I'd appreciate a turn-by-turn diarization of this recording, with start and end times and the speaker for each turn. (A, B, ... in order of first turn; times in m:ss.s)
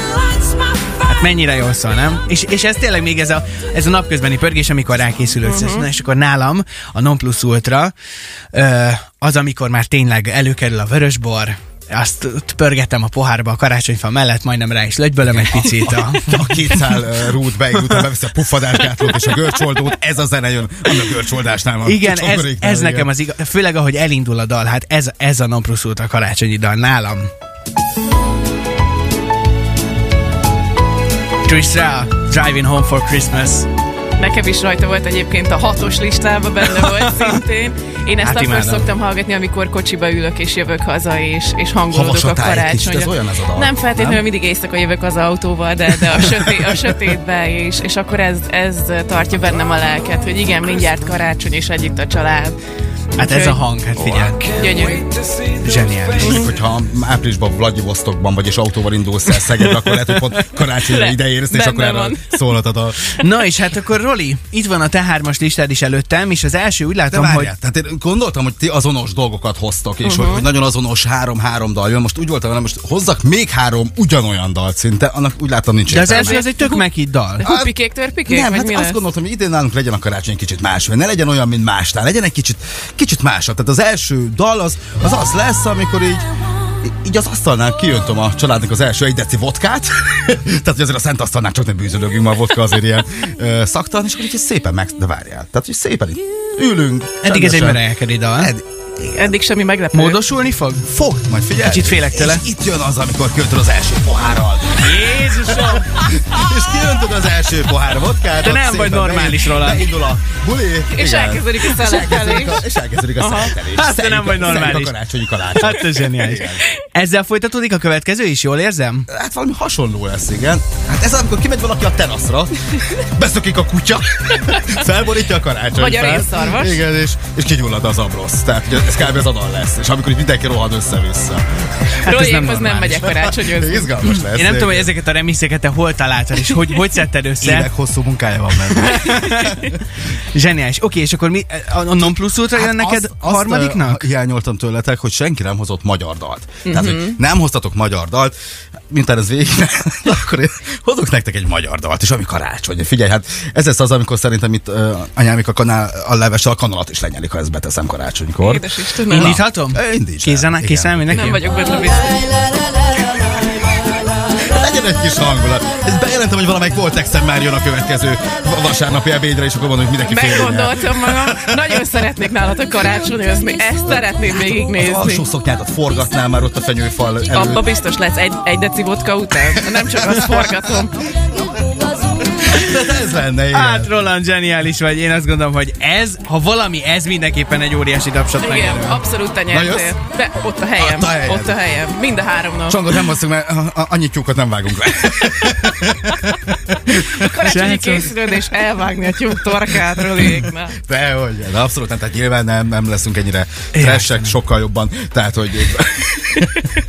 0:01.0-0:07.9 A
0:05.4-0:05.9 B
0:08.5-0:16.9 A
0:15.3-0:23.1 C
0:21.8-0:27.3 A
0:31.4-0:33.7 A
0:34.2-0:52.6 B
0:36.8-0:37.3 A
0:38.2-0:38.9 A
0:41.9-0:44.2 C
0:53.2-0:54.6 A
0:53.2-0:53.6 B
0:54.4-0:55.1 B
0:55.5-0:56.4 A
0:56.2-1:03.1 C
0:56.2-0:56.5 B
1:00.8-1:02.4 B
1:03.2-1:07.5 A
1:07.1-1:16.4 C
1:10.0-1:10.4 B
1:15.9-1:17.4 A
1:16.1-1:16.8 B
1:17.4-1:19.0 B
1:17.4-1:17.7 C
1:18.2-1:37.8 C
1:37.2-1:38.5 A
1:38.4-1:39.4 C
1:39.2-1:40.2 B
1:39.9-1:42.4 A
1:41.2-1:56.6 C
1:44.8-1:45.9 A
1:48.4-1:49.9 A
1:50.9-1:52.6 B
1:53.2-1:53.6 B
1:53.6-1:54.9 A
1:55.5-1:59.1 A
1:59.1-2:11.9 C
2:05.7-2:06.8 B
2:12.0-2:13.1 A
2:12.0-2:14.0 B
2:13.0-2:14.9 C
2:14.3-2:17.7 A
2:17.4-2:19.8 C
2:18.7-2:19.7 A
2:20.3-2:24.1 A
2:22.5-2:28.3 C
2:26.6-2:27.2 B
2:28.9-2:41.4 C
2:38.4-2:39.4 B
2:39.1-2:41.4 A
2:41.1-2:42.3 B
2:44.4-2:51.8 C
2:50.0-2:55.2 B
2:54.7-2:57.6 C
2:57.3-3:01.0 B
2:59.8-3:00.2 C
3:02.2-3:03.9 C
3:03.5-3:09.0 A
3:08.4-3:13.0 B
3:09.5-3:09.9 C
3:10.8-3:11.6 C
3:12.7-3:17.3 C
3:17.2-3:20.8 B
3:17.4-3:18.2 A
3:20.2-3:26.7 C
3:23.7-3:24.3 A